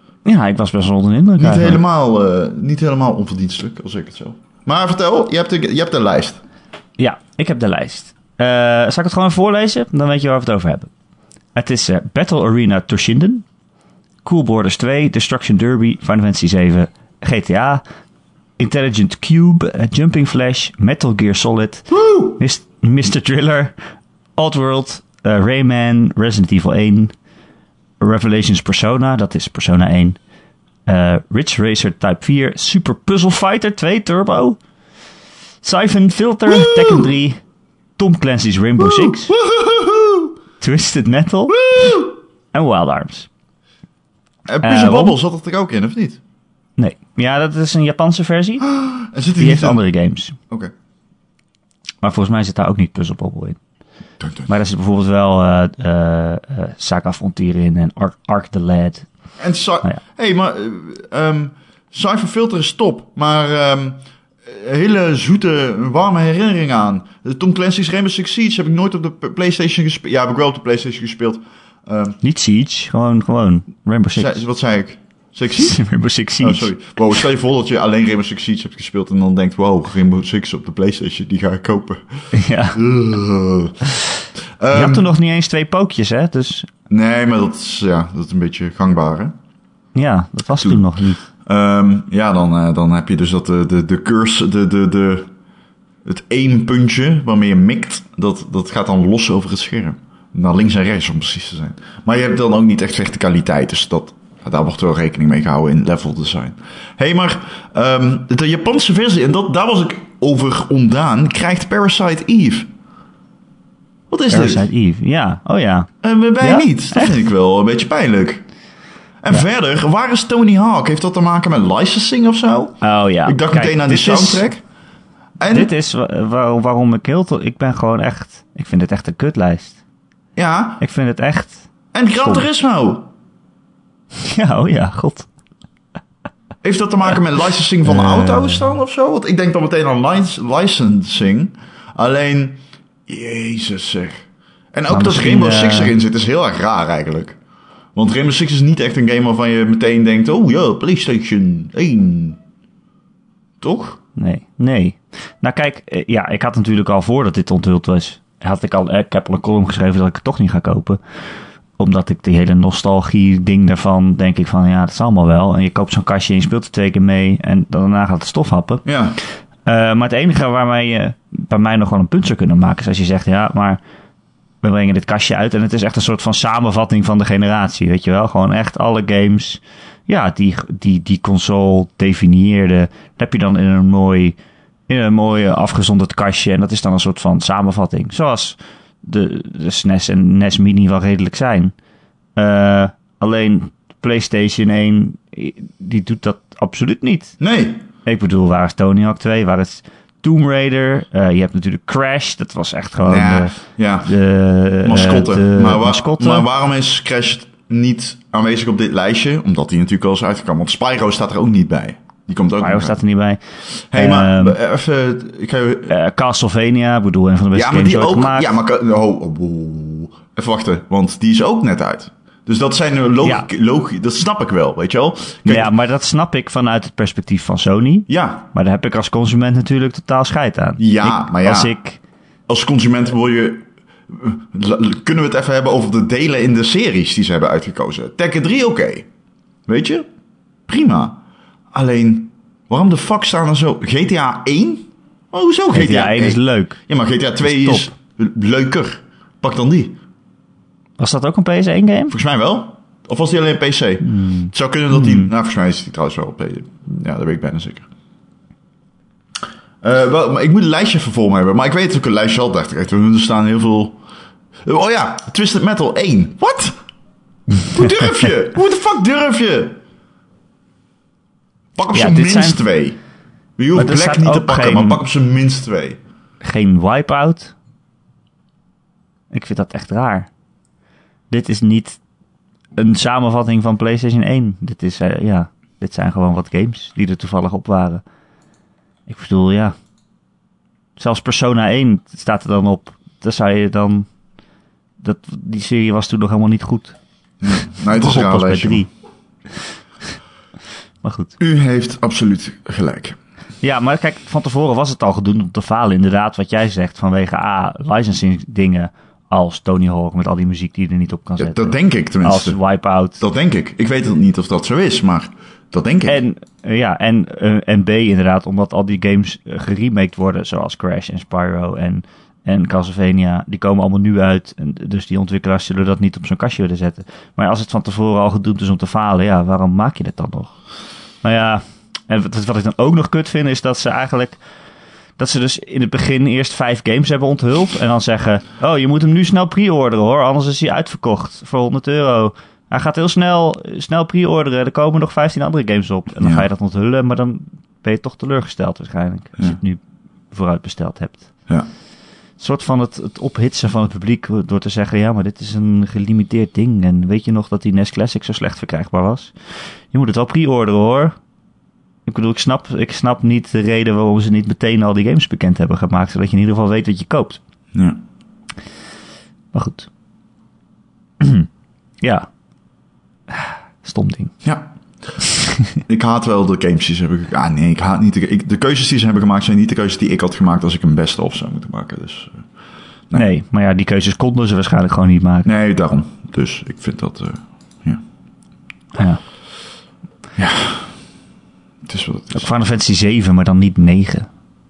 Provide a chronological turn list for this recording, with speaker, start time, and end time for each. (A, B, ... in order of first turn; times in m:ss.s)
0:00.2-0:01.8 A
0:01.4-0:06.4 B
0:07.0-0:10.9 A
0:11.6-0:13.4 A
0:14.2-0:17.8 A
0:18.6-0:23.7 A
0:21.9-0:22.4 B
0:24.4-0:27.1 A
0:28.0-0:30.2 A
0:30.9-0:34.6 A
0:35.6-0:37.4 A
0:36.5-0:37.1 B
0:38.0-0:39.3 A
0:38.8-0:40.3 B
0:40.6-0:43.3 A
0:41.5-0:42.2 B
0:44.5-0:46.2 B
0:44.6-0:45.2 A
0:46.8-0:48.7 A
0:48.6-0:49.8 B
0:49.4-0:50.4 A
0:52.0-0:53.6 A
0:54.2-0:54.5 B
0:54.5-0:59.1 A
0:59.4-1:12.2 B
1:12.2-1:14.4 A
1:14.1-1:15.8 B
1:15.6-1:16.7 A
1:16.4-1:23.8 B
1:22.3-1:22.8 A
1:24.6-1:25.0 B
1:24.7-1:26.7 A
1:26.9-1:29.3 B
1:29.9-1:31.2 A
1:31.4-1:35.3 B
1:36.0-1:52.7 B
1:54.1-1:54.7 B
1:54.3-1:57.2 A
1:56.0-1:58.4 B
1:59.2-2:04.6 B
2:02.8-2:04.4 A
2:05.4-2:05.7 B
2:05.5-2:09.8 A
2:10.4-2:10.8 B
2:10.8-2:11.6 A
2:11.9-2:13.1 B
2:14.2-2:15.3 A
2:16.6-2:27.4 B
2:17.8-2:18.7 A
2:24.9-2:25.9 A
2:27.9-2:32.4 B
2:33.6-2:34.0 B
2:34.2-2:41.0 A
2:41.8-2:48.8 A
2:48.8-2:49.2 B
2:49.6-2:53.8 A
2:54.6-3:04.4 A
3:04.9-3:11.7 A
3:12.4-3:17.4 A
3:17.4-3:17.8 B
3:18.0-3:26.5 A
3:23.0-3:24.1 B
3:24.8-3:33.0 B
3:32.6-3:33.4 A
3:33.9-3:35.9 B
3:33.9-3:34.6 A
3:35.9-3:38.5 A
3:37.5-3:45.7 B
3:45.4-3:52.0 A
3:48.1-3:48.4 B
3:50.8-3:51.7 B
3:52.5-3:59.0 B
3:59.7-4:00.0 B
4:00.7-4:01.2 B
4:01.7-4:10.0 B
4:05.7-4:06.8 A
4:07.4-4:07.9 A
4:11.0-4:12.2 A
4:12.1-4:17.9 B
4:14.1-4:15.3 A
4:19.8-4:24.0 B
4:24.6-4:26.7 B
4:27.5-4:29.8 B
4:31.8-4:33.0 B
4:31.9-4:32.6 A
4:33.6-4:36.0 B
4:33.7-4:35.0 A
4:36.4-4:37.5 A
4:39.3-4:40.3 A
4:41.3-4:42.0 A
4:42.8-4:48.0 A
4:49.1-4:49.7 A
4:51.0-4:54.1 A
4:55.0-4:57.0 A
4:57.4-4:58.8 B
4:57.9-4:58.9 A
5:01.0-5:01.3 A
5:01.4-5:03.2 B
5:03.6-5:13.2 A
5:11.4-5:12.6 B
5:13.2-5:16.2 B
5:16.0-5:30.5 A
5:31.2-5:34.4 A
5:35.2-5:51.3 A
5:46.2-5:46.4 B
5:52.4-5:59.3 A
5:59.9-6:01.1 A
6:02.0-6:07.4 A
6:07.7-6:08.0 B
6:09.5-6:09.9 A
6:11.2-6:11.5 A
6:12.0-6:12.3 A
6:13.3-6:14.3 A
6:15.2-6:15.8 A
6:15.9-6:22.4 B
6:23.1-6:25.5 A
6:25.4-6:28.0 B
6:28.9-6:29.2 A
6:30.4-6:30.9 B
6:31.8-6:32.5 B
6:32.3-6:34.3 A